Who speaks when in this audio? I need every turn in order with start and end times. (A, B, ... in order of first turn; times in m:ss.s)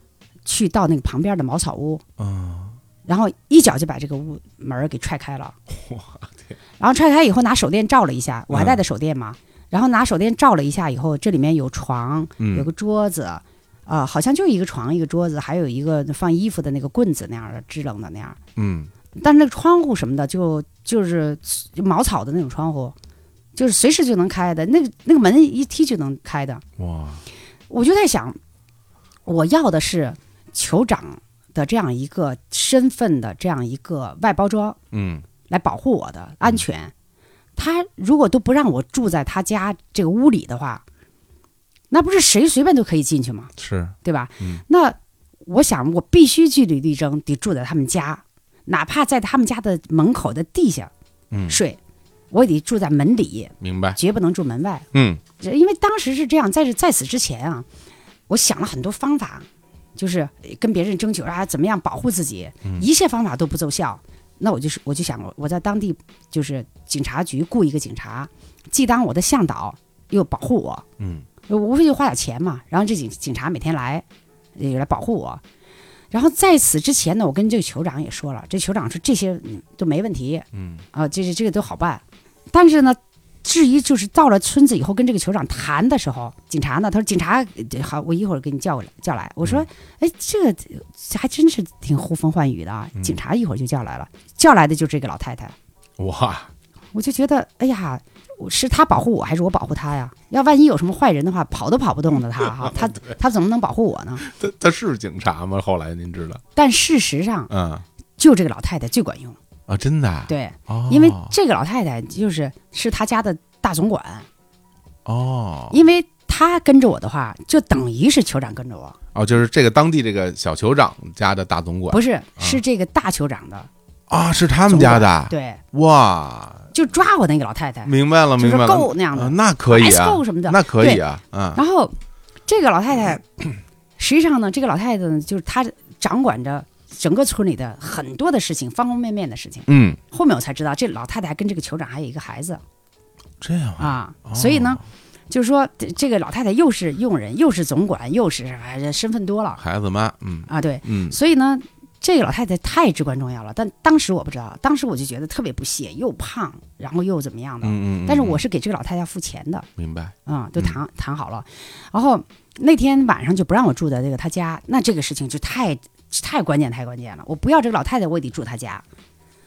0:00.4-0:02.0 A
0:02.2-0:02.8 B
0:03.0-0:05.6 A
0:05.7-0:06.5 B
0:06.8-0:18.4 A
0:08.5-0:08.8 B
0:12.4-0:12.7 B
0:18.6-0:18.9 B
0:19.2-0:22.9 A
0:23.6-0:26.6 A
0:26.8-0:27.2 B
0:27.7-0:28.4 A
0:29.2-0:34.8 A
0:34.9-0:35.2 B
0:35.5-0:36.9 A
0:37.6-0:40.8 A
0:41.9-0:43.5 A
0:43.6-0:44.6 B
0:44.0-0:50.9 A
0:51.3-0:51.6 B
0:51.5-0:51.8 A
0:52.3-0:54.9 A
0:53.6-0:54.0 B
0:54.9-0:55.2 B
0:55.4-0:57.6 A
0:58.3-1:10.8 A
1:11.0-1:11.3 B
1:11.5-1:14.0 A
1:14.6-1:15.4 A
1:16.1-1:35.5 A
1:20.5-1:20.8 B
1:36.0-1:36.5 B
1:36.9-1:44.2 A
1:42.4-1:43.1 B
1:44.2-1:46.4 B
1:46.5-1:47.5 A
1:47.5-1:47.8 B
1:48.2-1:49.4 A
1:49.7-1:51.3 B
1:50.3-1:54.3 A
1:55.0-1:55.8 B
1:55.7-1:59.0 A
1:59.1-2:02.6 B
2:01.9-2:03.7 A
2:04.1-2:06.7 B
2:04.7-2:05.6 A
2:06.7-2:11.0 A
2:07.8-2:11.6 B
2:11.5-2:11.9 A
2:12.5-2:13.2 A
2:14.0-2:22.6 A
2:19.7-2:20.0 B
2:23.4-2:24.8 B
2:23.8-2:29.6 A
2:29.6-2:31.2 B
2:30.5-2:39.7 A
2:37.6-2:38.4 B
2:39.8-2:40.8 B
2:40.2-2:48.8 A